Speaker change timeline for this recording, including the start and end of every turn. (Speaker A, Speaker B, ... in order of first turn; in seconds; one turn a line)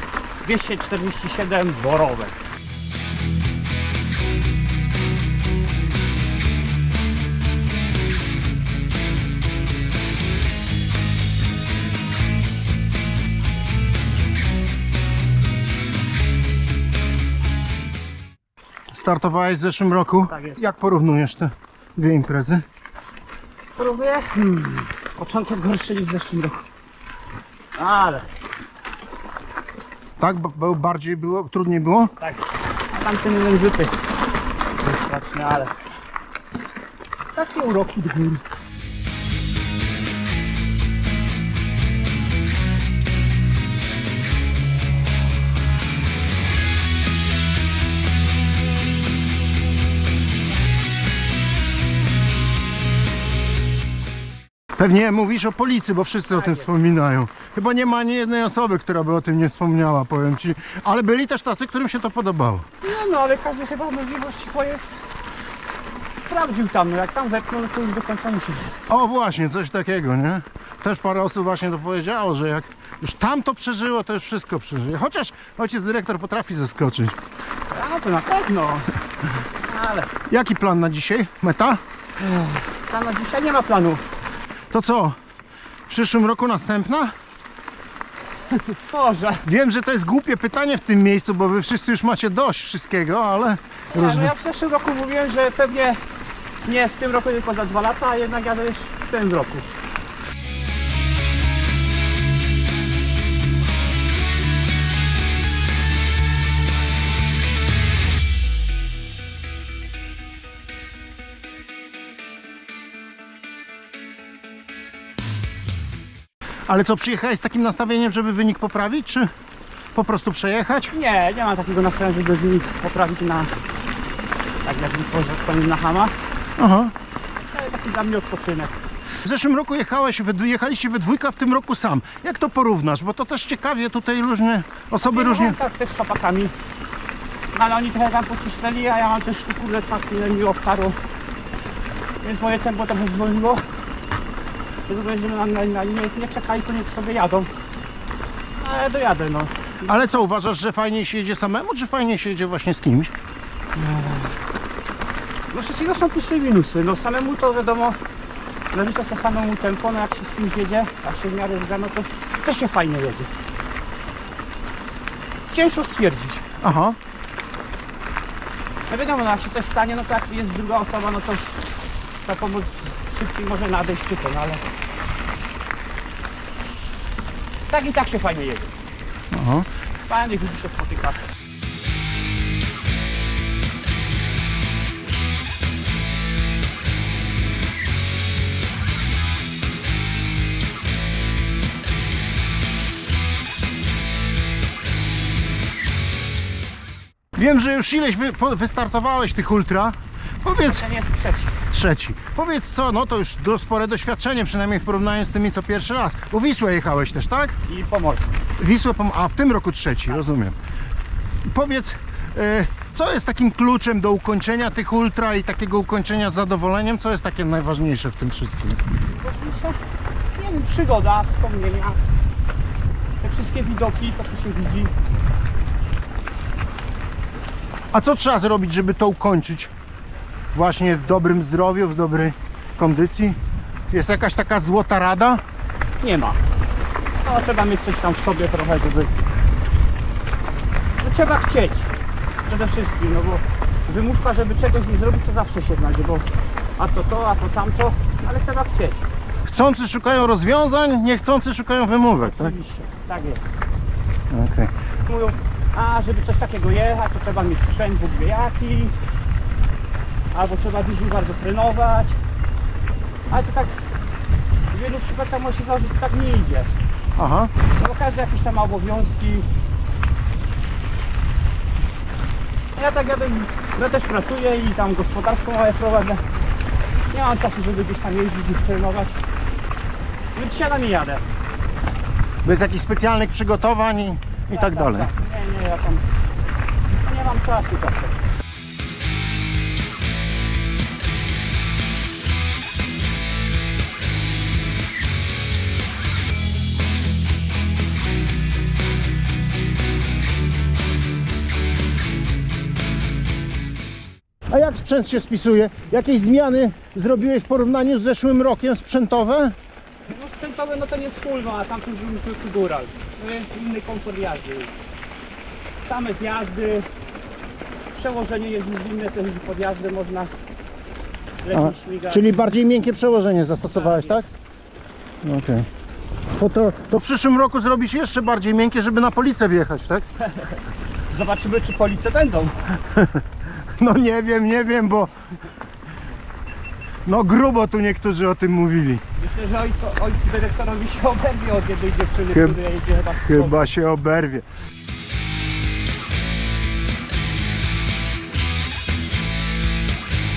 Speaker A: 0.4-2.4
Speaker B: 18.9-22.6
Speaker A: 20.3-20.6
Speaker A: 23.8-26.6
Speaker A: 27.8-28.3
Speaker B: 30.2-32.1
Speaker A: 32.2-34.1
Speaker A: 34.8-35.8
Speaker A: 37.3-38.4
Speaker B: 54.8-62.6
Speaker A: 56.3-56.7
Speaker A: 62.8-64.9
Speaker A: 66.2-68.8
Speaker B: 68.9-77.2
Speaker A: 77.7-78.9
Speaker A: 79.6-80.1
Speaker B: 80.3-81.8
Speaker A: 82.2-84.0
Speaker B: 84.7-85.2
Speaker B: 85.9-87.1
Speaker A: 88.5-89.4
Speaker B: 89.4-94.3
Speaker A: 93.9-96.0
Speaker A: 96.6-99.7
Speaker B: 116.7-119.3
Speaker B: 119.9-120.9
Speaker A: 120.9-123.5
Speaker A: 124.6-126.1
Speaker B: 126.6-126.9
Speaker A: 127.5-128.7
Speaker B: 129.2-135.6
Speaker A: 135.0-136.5
Speaker A: 137.5-141.0
Speaker A: 142.2-143.6
Speaker A: 144.9-147.5
Speaker A: 148.6-149.9
Speaker B: 149.8-153.1
Speaker A: 153.7-154.3
Speaker A: 155.5-158.0
Speaker A: 158.7-163.3
Speaker A: 165.5-166.4
Speaker B: 166.6-167.0
Speaker A: 168.9-171.5
Speaker A: 172.2-174.6
Speaker A: 177.7-178.7
Speaker B: 179.3-179.7
Speaker A: 180.1-181.2
Speaker B: 197.3-200.8
Speaker A: 200.6-201.6
Speaker B: 201.7-207.5
Speaker A: 207.7-208.4
Speaker B: 208.6-210.6
Speaker B: 211.4-218.8
Speaker A: 219.1-219.8
Speaker A: 220.3-222.0
Speaker A: 223.2-224.9
Speaker B: 227.9-229.7
Speaker B: 230.5-233.4
Speaker B: 233.9-235.4
Speaker A: 236.0-236.4
Speaker A: 237.2-239.1
Speaker A: 241.0-241.9
Speaker A: 242.4-249.1
Speaker B: 249.4-252.5
Speaker A: 252.2-253.5
Speaker B: 254.3-254.7
Speaker A: 255.1-258.9
Speaker A: 260.3-262.2
Speaker A: 263.3-263.8
Speaker A: 264.7-266.8
Speaker B: 267.2-267.5
Speaker A: 267.8-269.5
Speaker A: 272.7-276.2
Speaker A: 277.1-279.2
Speaker A: 280.3-281.2
Speaker B: 282.4-285.1
Speaker A: 284.5-286.0
Speaker A: 287.0-288.1
Speaker B: 304.5-309.5
Speaker A: 310.1-314.7
Speaker A: 315.8-316.9
Speaker A: 317.9-320.3
Speaker A: 321.4-322.4
Speaker B: 321.5-324.3
Speaker A: 323.8-324.2
Speaker B: 325.2-325.7
Speaker B: 326.4-330.0
Speaker A: 331.1-332.6
Speaker B: 332.9-333.2
Speaker B: 333.8-335.1
Speaker B: 337.0-339.0
Speaker A: 339.1-343.6
Speaker B: 342.3-342.6
Speaker B: 343.2-344.4